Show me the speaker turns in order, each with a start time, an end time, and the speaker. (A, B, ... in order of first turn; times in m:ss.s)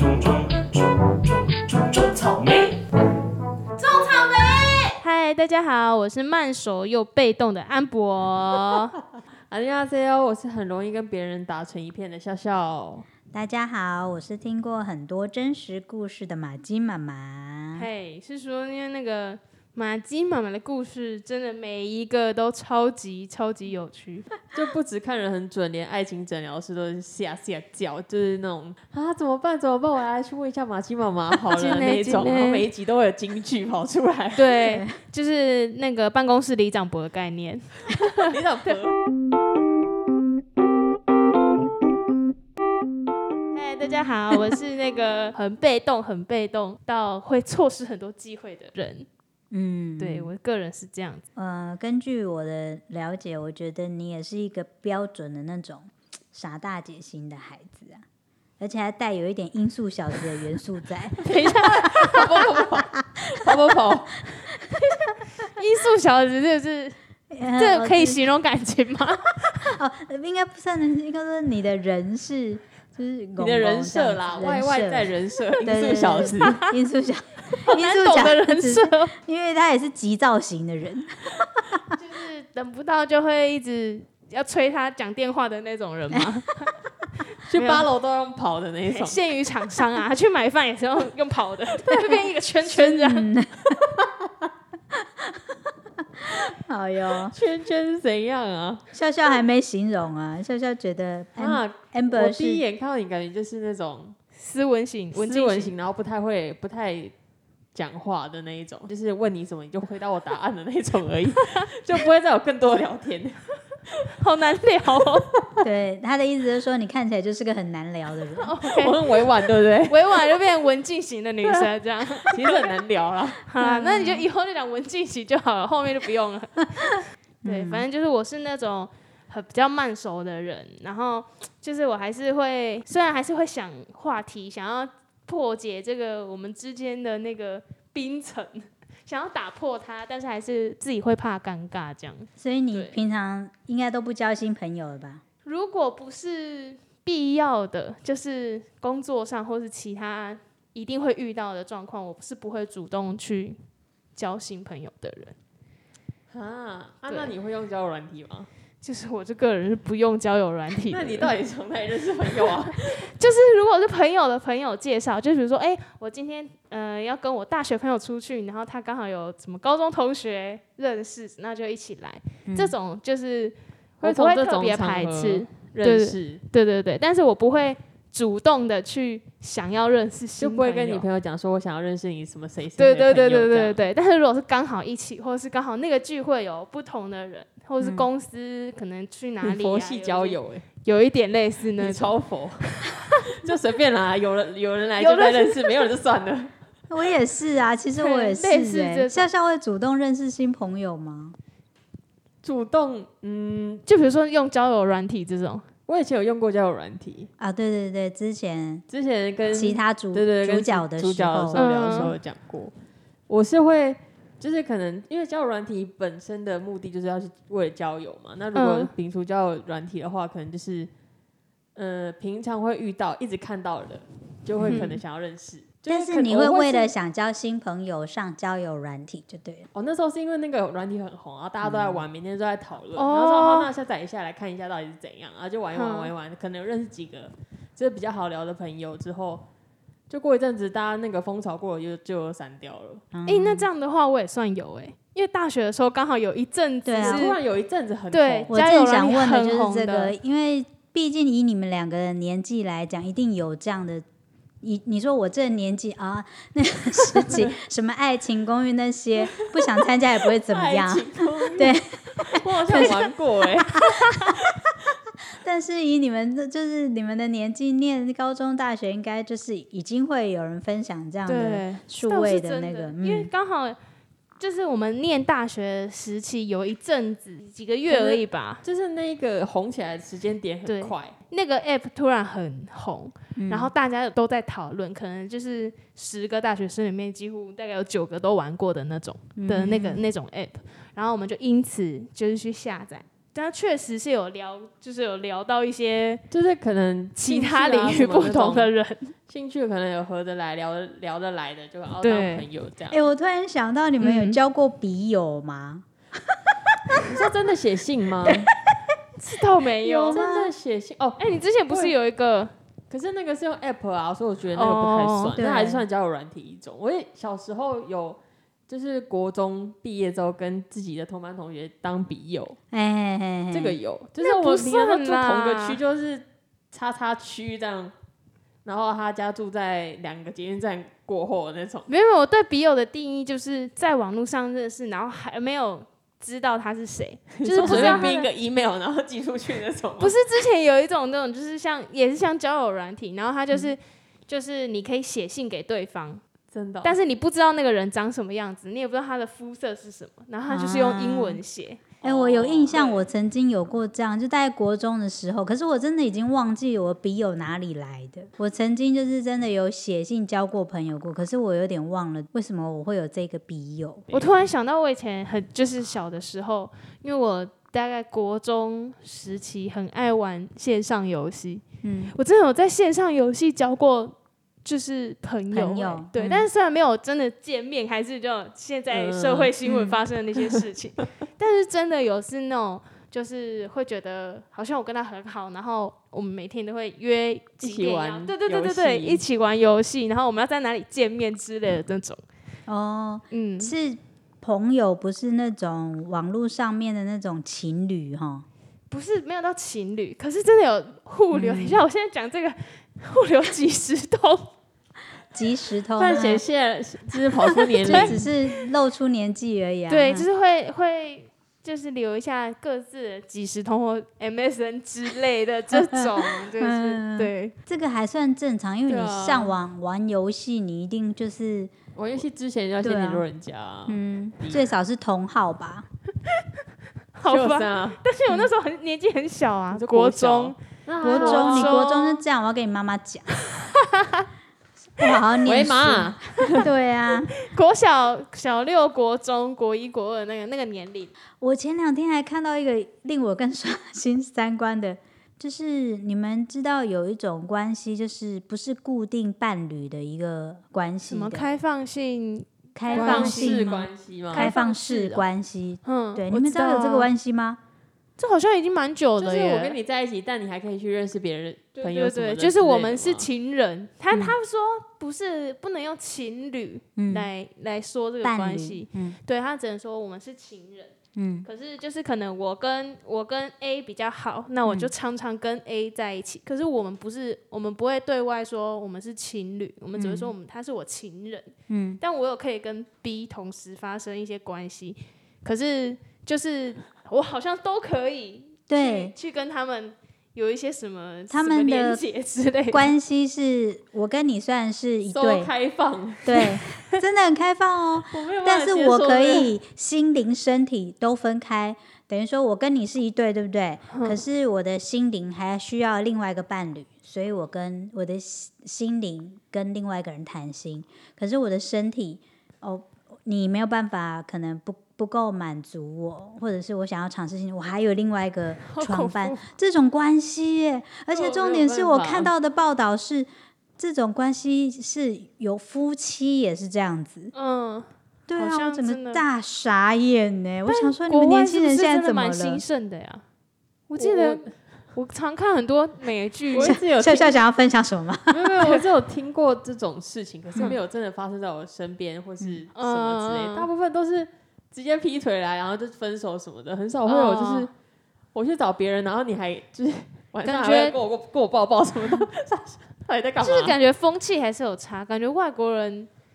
0:03.8-0:09.0 A
0:09.5-0:13.0 B
0:13.3-0:17.9 C
0:17.8-0:24.3 A
0:24.5-0:34.5 B
0:31.5-0:32.6 A
0:34.3-0:38.4 A
0:34.6-0:34.9 C
0:38.0-0:39.0 B
0:43.5-0:49.1 A
0:49.5-0:50.3 C
0:50.0-0:51.2 A
0:51.4-0:58.0 C
0:58.6-1:01.2 C
1:01.2-1:04.1 B
1:01.8-1:02.2 A
1:05.4-1:07.0 A
1:07.3-1:08.2 C
1:07.6-1:09.6 A
1:09.6-1:15.1 C
1:13.4-1:16.6 B
1:15.6-1:21.2 C
1:16.2-1:16.7 A
1:17.6-1:19.1 A
1:21.9-1:26.7 A
1:27.4-1:29.2 B
1:27.5-1:27.9 A
1:28.9-1:33.3 A
1:31.9-1:33.9 C
1:35.2-1:35.5 C
1:36.2-1:37.3 C
1:37.3-1:38.8 B
1:38.9-1:42.6 C
1:41.4-1:44.2 B
1:44.4-1:45.7 A
1:45.1-1:47.1 B
1:47.7-1:53.4 B
1:54.2-1:55.3 A
1:55.6-1:58.5 C
1:58.4-1:59.2 A
1:58.7-2:00.4 B
1:59.9-2:02.7 A
2:01.4-2:01.7 B
2:02.3-2:03.4 B
2:03.4-2:23.0 A
2:03.6-2:04.2 C
2:07.4-2:07.8 C
2:22.4-2:25.2 C
2:25.4-2:33.6 A
2:34.1-2:35.3 A
2:36.3-2:38.5 B
2:37.1-2:37.3 A
2:38.8-2:41.4 A
2:40.8-2:43.0 B
2:42.3-3:01.0 A
2:52.5-2:52.7 C
2:54.0-2:56.4 B
3:00.4-3:03.8 B
3:02.8-3:13.1 A
3:07.8-3:08.1 C
3:09.4-3:10.6 B
3:11.8-3:12.7 B
3:13.3-3:16.5 B
3:15.0-3:15.8 A
3:16.9-3:21.4 C
3:18.0-3:19.3 A
3:22.4-3:23.8 B
3:23.8-3:25.7 A
3:25.9-3:27.3 B
3:27.4-3:28.8 C
3:28.9-3:32.7 B
3:29.5-3:32.1 C
3:31.5-3:32.1 A
3:33.3-3:40.9 B
3:38.5-3:38.9 A
3:41.7-3:46.9 B
3:44.6-3:44.9 C
3:44.7-3:45.0 A
3:45.9-3:49.7 C
3:49.7-3:59.4 B
3:51.6-3:52.0 C
3:52.9-3:53.7 A
3:55.7-3:56.1 A
4:00.1-4:03.0 B
4:03.1-4:03.7 C
4:03.2-4:07.4 A
4:06.8-4:07.3 C
4:07.0-4:08.5 B
4:08.1-4:10.1 A
4:08.5-4:14.0 C
4:14.6-4:23.1 C
4:19.2-4:21.8 B
4:22.4-4:24.5 B
4:22.7-4:23.0 A
4:25.4-4:33.3 C
4:31.2-4:33.8 A
4:34.4-4:38.6 A
4:37.8-4:41.1 B
4:40.7-4:56.2 A
4:43.4-4:43.7 C
4:49.4-4:50.0 C
4:56.3-4:58.7 B
4:57.2-4:59.1 A
4:59.3-5:03.0 B
5:02.0-5:02.4 A
5:02.9-5:05.8 C
5:04.0-5:04.4 A
5:07.0-5:08.5 B
5:09.2-5:10.2 A
5:09.8-5:10.5 C
5:10.1-5:11.9 B
5:11.2-5:12.5 A
5:12.9-5:22.6 B
5:14.5-5:15.4 A
5:15.3-5:15.8 C
5:22.7-5:23.8 C
5:23.5-5:27.9 B
5:24.2-5:25.8 A
5:28.6-5:31.9 B
5:31.9-5:38.3 A
5:37.4-5:40.2 B
5:37.6-5:38.0 C
5:40.0-5:46.2 A
5:46.5-5:47.0 B
5:46.8-5:51.9 A
5:50.5-5:51.4 C
5:52.0-5:53.1 B
5:52.0-6:04.0 C
6:04.1-6:04.5 B
6:04.1-6:32.2 A
6:11.8-6:12.1 C
6:15.5-6:16.5 C
6:18.9-6:19.5 B
6:19.6-6:20.0 C
6:27.6-6:29.2 B
6:32.7-6:38.4 C
6:33.3-6:33.7 A
6:38.9-6:44.5 A
6:41.3-6:41.8 C
6:45.3-6:46.4 C
6:46.0-6:48.2 B
6:47.8-6:48.6 A
6:47.8-6:50.3 C
6:49.9-6:57.5 A
6:55.7-7:01.7 C
6:58.9-6:59.6 B
7:02.0-7:04.7 B
7:02.8-7:03.2 C
7:03.9-7:05.8 C
7:07.1-7:12.2 A
7:07.2-7:08.0 B
7:09.7-7:11.8 B
7:11.0-7:13.3 C
7:15.0-7:17.3 C
7:15.4-7:16.7 B
7:17.4-7:21.1 A
7:21.4-7:31.6 C
7:31.1-7:35.2 A
7:32.7-7:33.7 C
7:32.9-7:34.5 B
7:34.3-7:37.6 C
7:35.8-7:37.1 A
7:38.2-7:39.8 A
7:39.2-7:43.3 B
7:41.8-8:12.9 A
7:47.0-7:47.3 C
7:48.2-7:49.2 C
7:51.2-7:51.5 C
7:54.6-7:54.9 C
7:59.9-8:00.3 C
8:01.7-8:02.0 C
8:08.7-8:09.1 C
8:11.3-8:12.0 C
8:12.7-8:15.5 C
8:15.1-8:16.4 B
8:16.2-8:47.3 C
8:18.1-8:19.5 B
8:23.9-8:24.2 A
8:38.6-8:39.4 A
8:41.1-8:42.3 B
8:47.3-8:49.2 A
8:48.3-8:52.6 C
8:50.7-8:53.2 A
8:53.9-8:56.8 A
8:54.0-8:54.5 B
8:56.5-8:57.4 B
8:56.6-8:58.5 C
8:58.3-9:07.7 B
9:02.7-9:03.7 A
9:07.0-9:07.7 A
9:08.3-9:13.8 B
9:10.4-9:11.0 A
9:13.4-9:16.1 A